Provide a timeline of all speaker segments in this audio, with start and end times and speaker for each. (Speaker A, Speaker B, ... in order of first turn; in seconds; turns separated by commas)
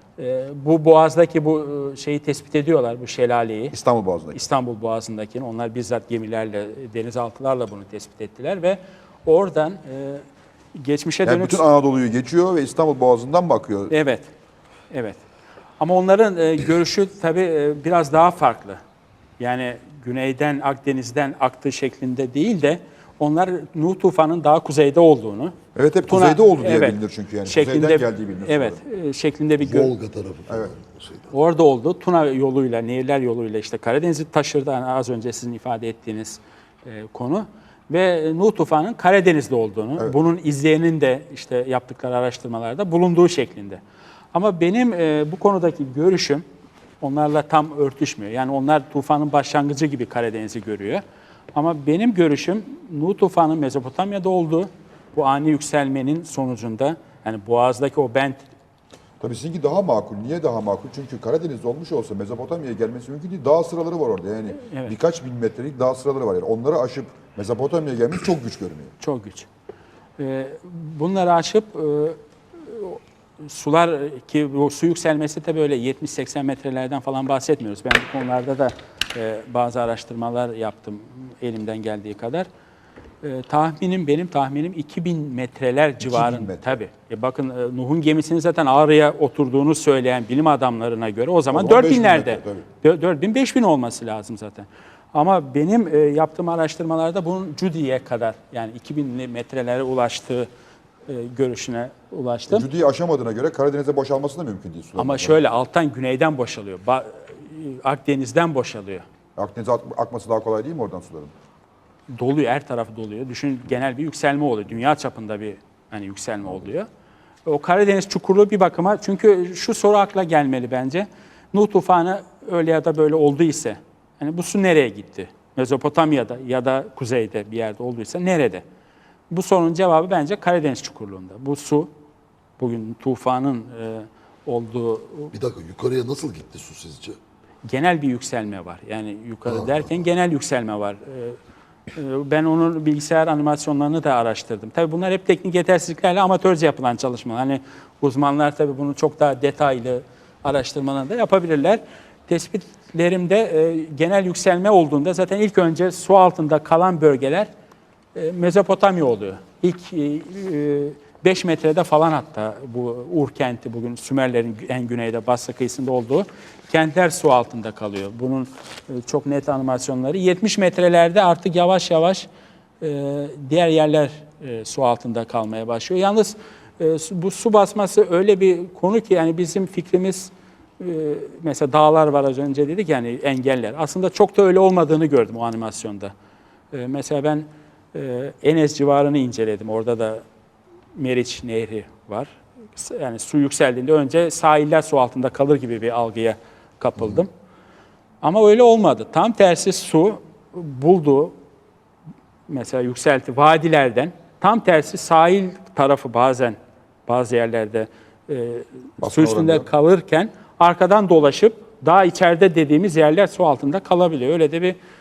Speaker A: 0.2-3.8, Speaker B: 3.7-4.4, Speaker A: 4.3-11.6, Speaker B: 11.2-13.9, Speaker A: 13.9-14.3, Speaker A: 14.9-15.2, Speaker A: 15.8-18.8, Speaker A: 19.4-25.6, Speaker B: 25.8-28.8, Speaker A: 26.1-29.9, Speaker C: 29.6-31.3, Speaker B: 30.5-30.7, Speaker A: 31.3-43.8, Speaker A: 44.3-46.5, Speaker A: 47.0-51.0, Speaker A: 51.5-58.5, Speaker B: 59.2-68.9, Speaker A: 64.6-65.0, Speaker A: 69.0-69.5, Speaker A: 70.2-82.5, Speaker A: 83.2-100.5, Speaker B: 86.0-86.8, Speaker B: 91.5-92.7, Speaker A: 101.1-102.7, Speaker B: 102.5-105.4, Speaker A: 105.0-109.0, Speaker B: 109.4-111.3, Speaker A: 112.1-116.9, Speaker A: 117.5-128.6, Speaker A: 129.3-131.9, Speaker A: 132.6-135.3, Speaker C: 135.3-137.2, Speaker A: 137.7-141.4, Speaker C: 139.4-140.1, Speaker A: 141.9-157.5, Speaker A: 158.2-172.3, Speaker A: 172.8-186.1, Speaker A: 186.7-190.2, Speaker A: 190.9-197.3, Speaker A: 198.2-201.3, Speaker A: 202.5-214.8, Speaker B: 209.0-209.7